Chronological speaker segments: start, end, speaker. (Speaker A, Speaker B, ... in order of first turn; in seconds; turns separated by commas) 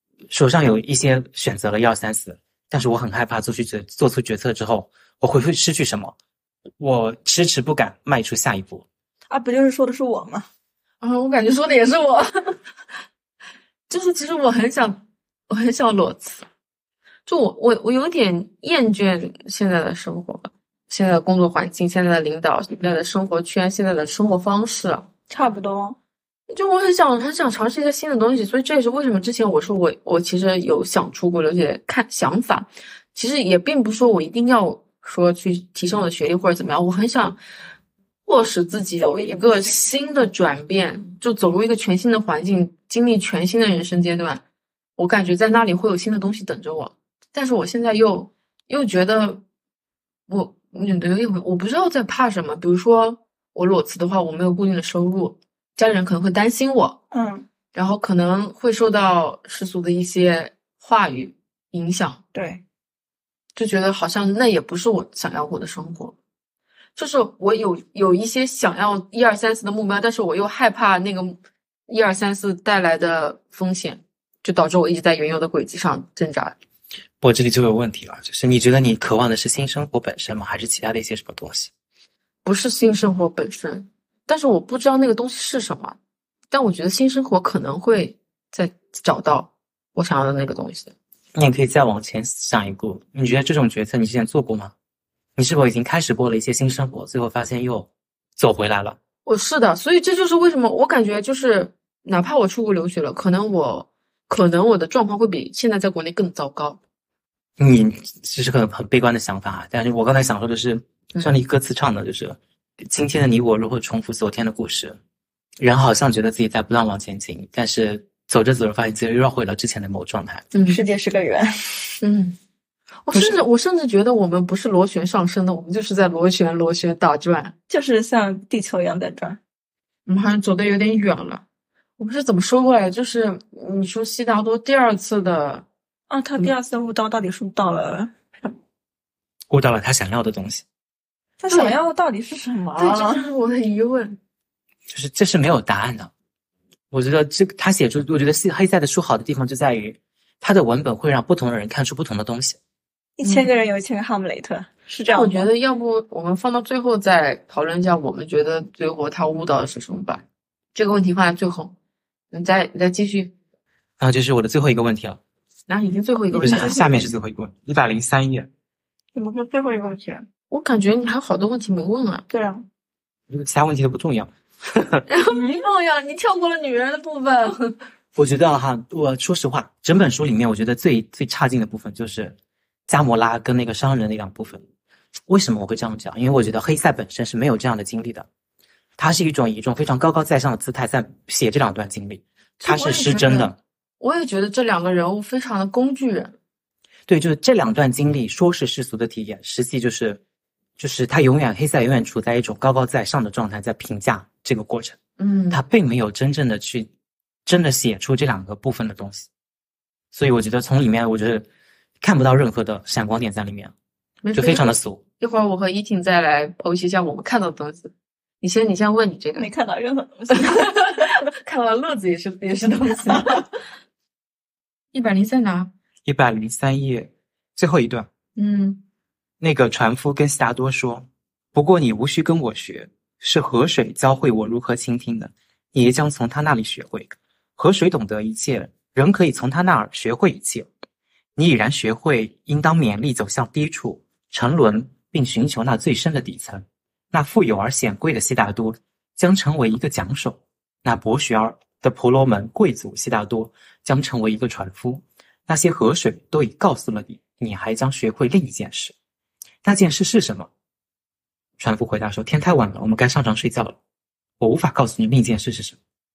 Speaker A: 0.3-6.1, Speaker A: 6.8-8.9, Speaker B: 9.3-10.5, Speaker C: 11.0-12.6, Speaker C: 13.9-16.5, Speaker C: 17.3-25.1, Speaker B: 25.3-26.0, Speaker C: 26.5-37.4, Speaker C: 38.2-44.4, Speaker B: 39.1-39.5, Speaker C: 45.0-49.4, Speaker C: 50.3-57.0, Speaker B: 57.1-57.5, Speaker C: 57.7-62.2, Speaker B: 62.3-62.6, Speaker C: 63.6-66.2, Speaker C: 67.0-76.5, Speaker A: 77.2-81.7, Speaker C: 82.5-86.0, Speaker C: 86.5-90.9, Speaker A: 91.3-94.7, Speaker A: 95.4-99.0, Speaker C: 99.2-106.8, Speaker A: 107.6-115.0, Speaker A: 115.6-120.5, Speaker C: 120.5-120.8, Speaker B: 120.7-122.0, Speaker C: 122.0-122.4, Speaker C: 123.0-127.5, Speaker B: 127.7-129.4, Speaker C: 130.1-131.4, Speaker C: 132.0-135.7, Speaker B: 136.1-138.6, Speaker A: 139.5-140.6, Speaker B: 141.4-143.2, Speaker C: 141.5-141.8, Speaker C: 142.8-144.2, Speaker A: 144.9-146.1, Speaker A: 146.9-152.6, Speaker B: 153.2-155.4, Speaker C: 155.1-160.2, Speaker C: 160.8-161.7, Speaker C: 162.3-163.3, Speaker A: 164.0-165.2, Speaker C: 165.7-167.0, Speaker B: 166.3-166.8, Speaker A: 166.4-168.5, Speaker B: 169.2-170.3, Speaker C: 170.5-172.3, Speaker B: 172.3-172.7, Speaker A: 173.3-175.1, Speaker C: 175.1-177.8, Speaker B: 175.3-175.6, Speaker A: 178.2-182.4, Speaker A: 182.9-184.6, Speaker A: 185.3-188.3, Speaker A: 189.0-193.6, Speaker C: 192.6-196.3, Speaker A: 197.1-200.2, Speaker A: 200.8-205.0, Speaker C: 205.2-205.6, Speaker A: 205.5-206.9, Speaker A: 207.5-209.3, Speaker A: 210.1-211.5, Speaker A: 212.0-213.7, Speaker C: 214.2-219.5, Speaker A: 214.3-215.0, Speaker B: 219.4-220.9, Speaker C: 220.3-223.5, Speaker C: 224.9-225.7, Speaker A: 226.1-228.1, Speaker C: 228.4-228.8, Speaker A: 229.4-240.7, Speaker A: 241.4-258.9, Speaker A: 259.6-260.5, Speaker A: 261.6-263.8, Speaker A: 264.4-265.8